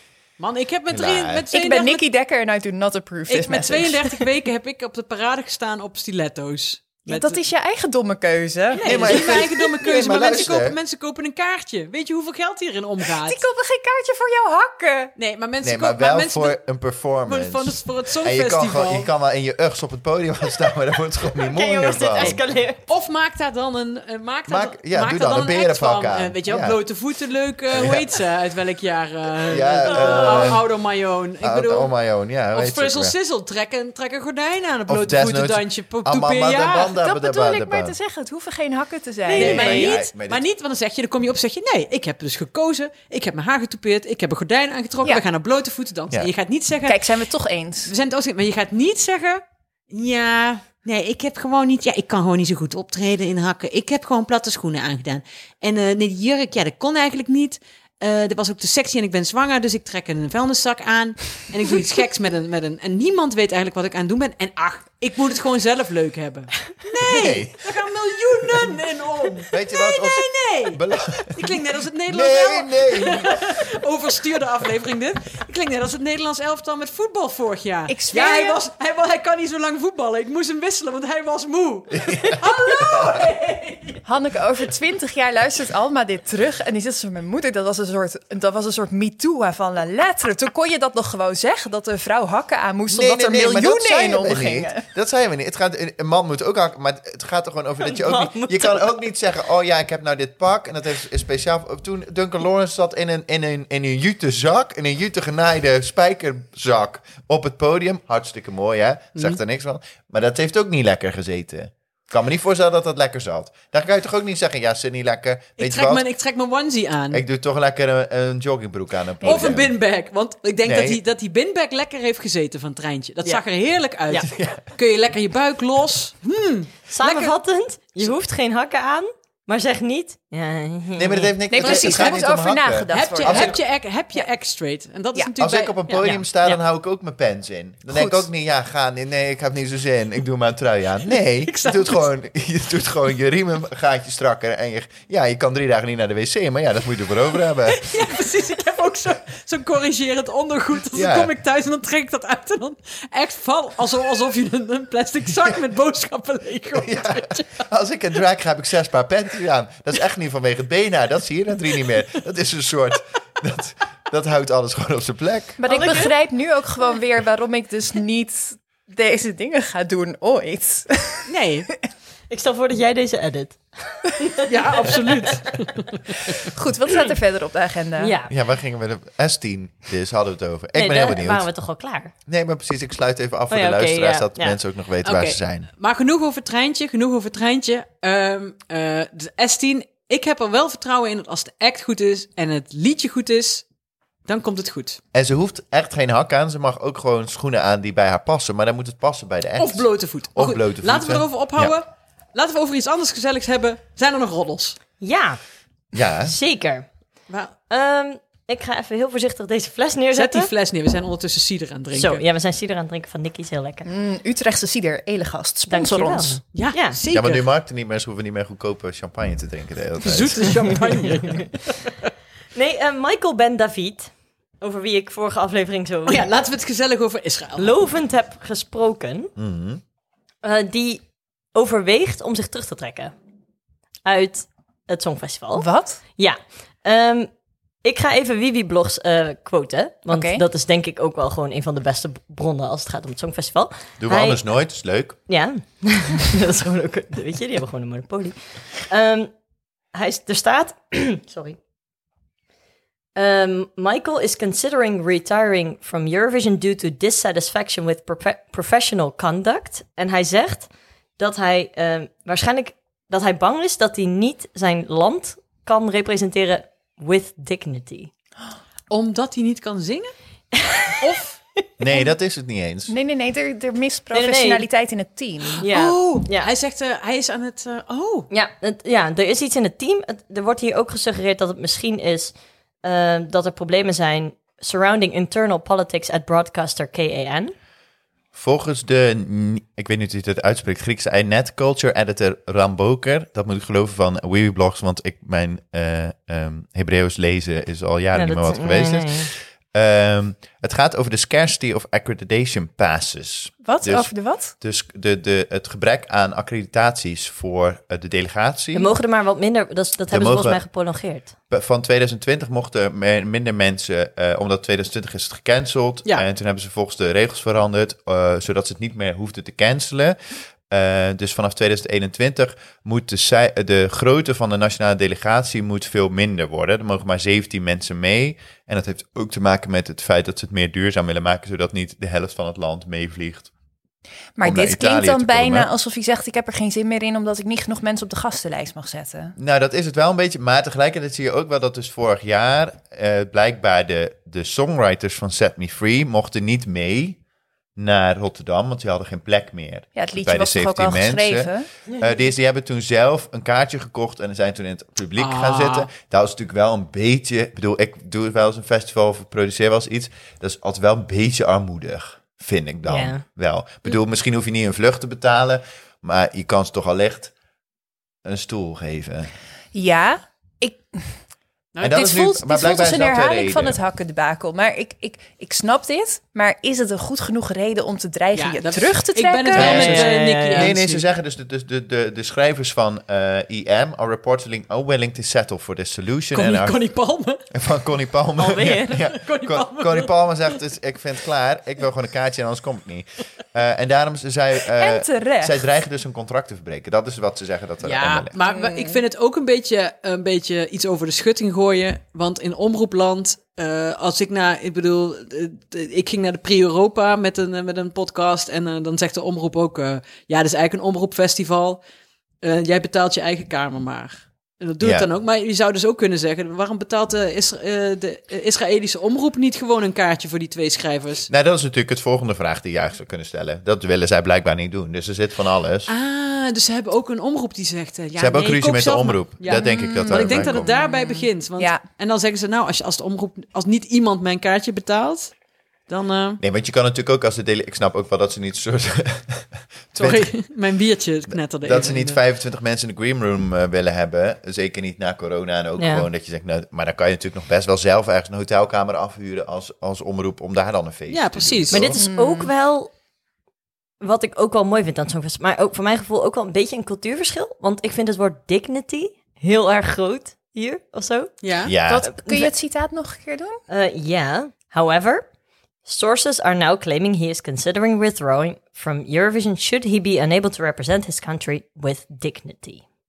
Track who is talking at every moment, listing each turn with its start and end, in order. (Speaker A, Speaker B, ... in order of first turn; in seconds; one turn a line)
Speaker A: 0.4-2.0
Speaker B: 0.9-1.4
Speaker C: 1.5-4.2
Speaker A: 3.3-7.4
Speaker C: 7.1-9.6
Speaker A: 8.7-13.4
Speaker B: 8.8-10.8
Speaker C: 13.2-15.1
Speaker A: 15.2-16.6
Speaker B: 15.6-22.4
Speaker A: 17.2-19.1
Speaker D: 21.5-22.8
Speaker A: 22.2-31.9
Speaker B: 24.5-26.8
Speaker B: 27.7-28.2
Speaker B: 29.5-30.6
Speaker D: 29.9-30.6
Speaker B: 31.4-33.1
Speaker A: 32.5-36.9
Speaker B: 34.9-38.0
Speaker C: 37.0-39.7
Speaker D: 39.2-39.9
Speaker A: 39.3-47.2
Speaker B: 39.4-40.4
Speaker C: 46.9-47.9
Speaker A: 47.9-84.0
Speaker B: 67.0-67.7
Speaker B: 69.5-71.6
Speaker B: 72.1-73.5
Speaker C: 77.9-78.6
Speaker B: 82.0-83.2
Speaker C: 84.0-94.8
Speaker B: 92.9-116.1
Speaker D: 97.8-99.0
Speaker A: 115.6-117.2
Speaker B: 117.1-119.8
Speaker A: 119.2-127.3
Speaker B: 120.6-121.0
Speaker B: 124.3-124.6
Speaker D: 126.9-131.4
Speaker B: 131.0-133.6
Speaker C: 131.5-133.6
Speaker A: 131.6-132.3
Speaker A: 132.9-136.1
Speaker B: 135.4-147.9
Speaker D: 135.9-136.6
Speaker C: 137.9-138.2
Speaker A: 141.4-142.1
Speaker A: 147.7-157.6
Speaker B: 150.9-151.3
Speaker B: 156.8-165.6
Speaker C: 165.6-171.3
Speaker D: 165.7-166.1
Speaker A: 171.3-171.7
Speaker D: 172.3-175.2
Speaker A: 174.5-176.0
Speaker C: 176.6-178.1
Speaker D: 178.0-178.3
Speaker B: 178.3-181.5
Speaker D: 180.8-182.1
Speaker B: 182.3-185.7
Speaker D: 183.5-184.6
Speaker A: 185.0-193.7
Speaker A: 194.3-195.0
Speaker B: 195.1-201.8
Speaker A: 199.6-204.8
Speaker D: 205.0-205.4
Speaker B: 205.9-206.3
Speaker D: 206.2-206.9
Speaker A: 207.3-207.6
Speaker D: 207.7-210.5
Speaker A: 210.1-212.2
Speaker D: 211.9-213.9
Speaker C: 213.8-216.4
Speaker D: 215.7-217.0
Speaker A: 216.5-217.5
Speaker B: 217.1-220.9
Speaker A: 220.0-221.9
Speaker D: 222.6-226.3
Speaker A: 226.1-227.7
Speaker D: 227.6-229.3
Speaker B: 229.4-229.8
Speaker D: 230.4-233.1
Speaker D: 234.1-237.3
Speaker C: 235.6-236.0
Speaker D: 237.8-244.4
Speaker C: 240.1-240.4
Speaker B: 244.0-245.2
Speaker D: 245.3-249.3
Speaker D: 249.9-251.6
Speaker D: 253.2-268.1
Speaker A: 268.9-270.1
Speaker A: 271.0-271.4
Speaker B: 271.8-272.9
Speaker C: 272.9-275.6
Speaker D: 274.1-274.6
Speaker D: 275.6-276.5
Speaker A: 275.6-278.3
Speaker D: 278.3-287.5
Speaker B: 288.3-308.9
Speaker D: 298.1-299.3
Speaker C: 303.6-304.5
Speaker D: 308.7-311.3
Speaker B: 310.1-310.6
Speaker B: 311.5-320.2
Speaker B: 320.7-333.5
Speaker C: 334.4-339.4
Speaker B: 334.4-335.7
Speaker B: 339.4-347.2
Speaker B: 347.8-367.3
Speaker C: 349.9-351.7
Speaker A: 355.2-355.9
Speaker D: 362.9-363.2
Speaker B: 368.2-369.3
Speaker C: 369.7-371.1
Speaker A: 371.8-372.2
Speaker B: 371.8-373.8
Speaker C: 371.9-380.0
Speaker A: 378.3-381.1
Speaker D: 379.6-380.7
Speaker B: 379.6-386.8
Speaker A: 386.3-387.4
Speaker B: 387.5-398.4
Speaker D: 388.4-388.9
Speaker A: 388.6-390.5
Speaker C: 394.8-395.6
Speaker A: 397.8-411.8
Speaker C: 398.5-399.0
Speaker A: 412.4-421.3
Speaker B: 414.8-415.1
Speaker B: 421.3-425.9
Speaker A: 425.9-435.3
Speaker B: 428.2-430.7
Speaker C: 429.5-431.8
Speaker A: 435.9-436.4
Speaker B: 436.4-440.3
Speaker A: 439.9-442.2
Speaker B: 441.6-452.0
Speaker D: 445.8-446.1
Speaker A: 451.1-451.9
Speaker D: 451.7-452.9
Speaker C: 452.0-452.5
Speaker D: 454.0-462.5
Speaker A: 461.4-461.7
Speaker B: 461.6-462.1
Speaker C: 461.8-463.6
Speaker D: 463.7-465.3
Speaker D: 465.9-472.8